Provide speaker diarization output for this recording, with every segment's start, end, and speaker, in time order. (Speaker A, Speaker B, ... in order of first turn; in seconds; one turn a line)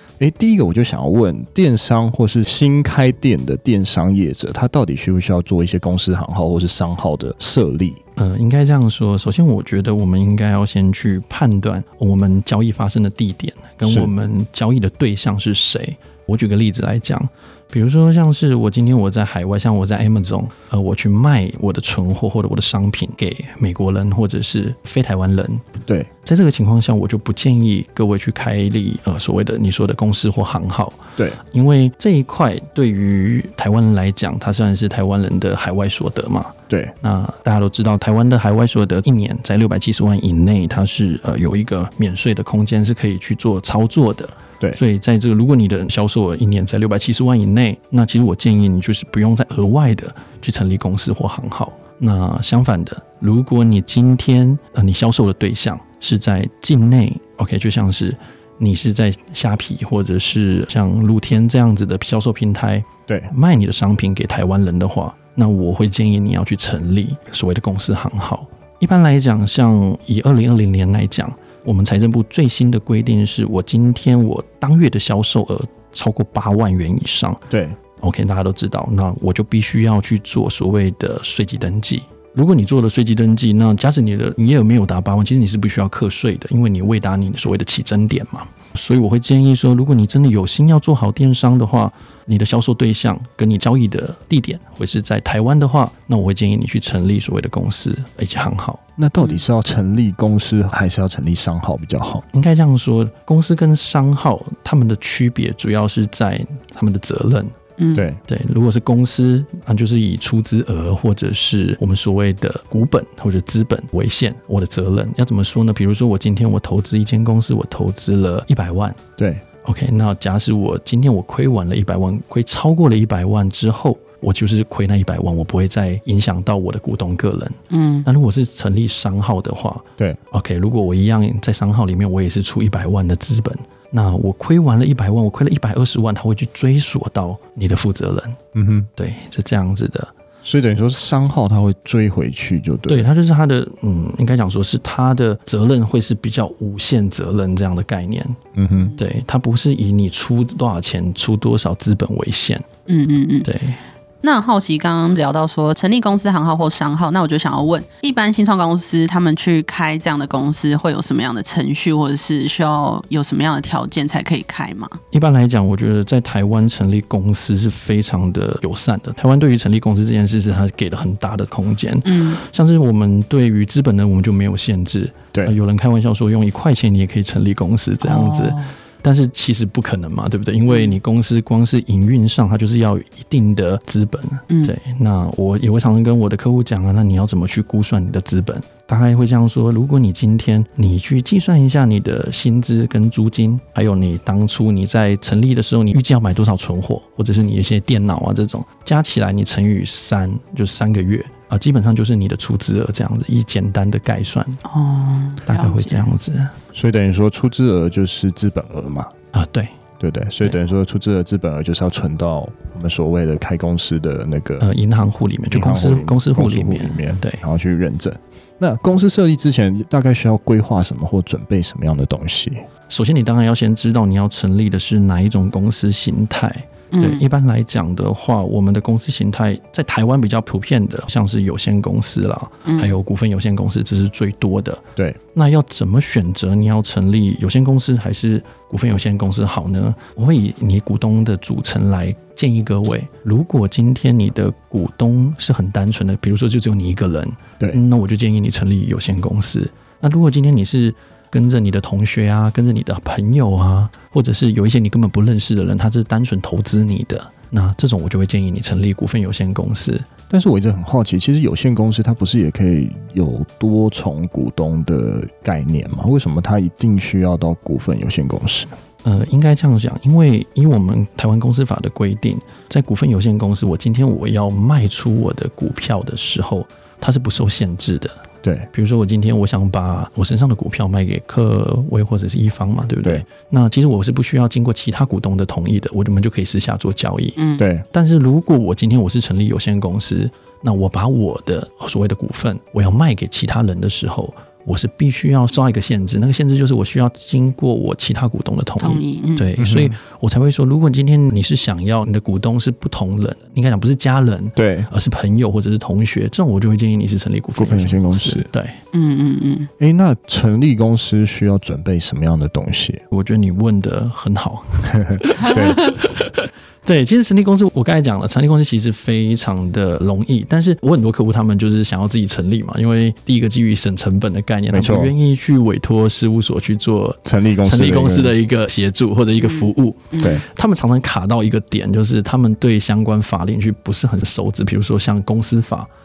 Speaker A: 0.2-8.0
Speaker B: 8.2-25.6
Speaker A: 13.8-14.1
Speaker B: 26.2-77.4
Speaker A: 36.7-36.9
Speaker A: 77.5-77.8
Speaker B: 78.0-98.8
Speaker A: 99.0-102.2
Speaker B: 102.3-107.5
Speaker C: 107.8-108.0
Speaker A: 107.9-108.2
Speaker B: 108.3-119.0
Speaker A: 119.2-119.4
Speaker B: 119.6-138.4
Speaker C: 127.7-128.1
Speaker A: 138.5-138.9
Speaker B: 138.9-140.1
Speaker A: 140.4-143.1
Speaker B: 142.9-148.4
Speaker A: 148.6-148.9
Speaker B: 149.0-152.7
Speaker C: 152.9-153.5
Speaker B: 153.4-153.8
Speaker C: 154.2-165.0
Speaker B: 165.1-204.6
Speaker C: 172.1-172.4
Speaker C: 178.0-178.7
Speaker C: 180.7-180.9
Speaker C: 204.7-206.1
Speaker B: 205.4-206.5
Speaker A: 206.7-209.1
Speaker B: 209.3-209.8
Speaker A: 210.0-214.7
Speaker B: 214.6-217.4
Speaker A: 215.5-222.6
Speaker B: 222.9-260.1
Speaker C: 226.9-227.2
Speaker C: 232.7-232.9
Speaker A: 260.3-268.7
Speaker B: 269.0-287.4
Speaker A: 278.4-278.7
Speaker C: 287.4-287.6
Speaker A: 287.6-287.8
Speaker B: 287.9-308.8
Speaker C: 298.8-299.5
Speaker A: 299.6-299.9
Speaker A: 304.6-304.9
Speaker A: 307.6-308.5
Speaker C: 308.9-309.7
Speaker A: 309.8-313.0
Speaker B: 313.1-316.3
Speaker A: 314.9-315.8
Speaker B: 316.9-335.9
Speaker A: 324.7-325.1
Speaker A: 327.2-328.4
Speaker C: 329.4-330.4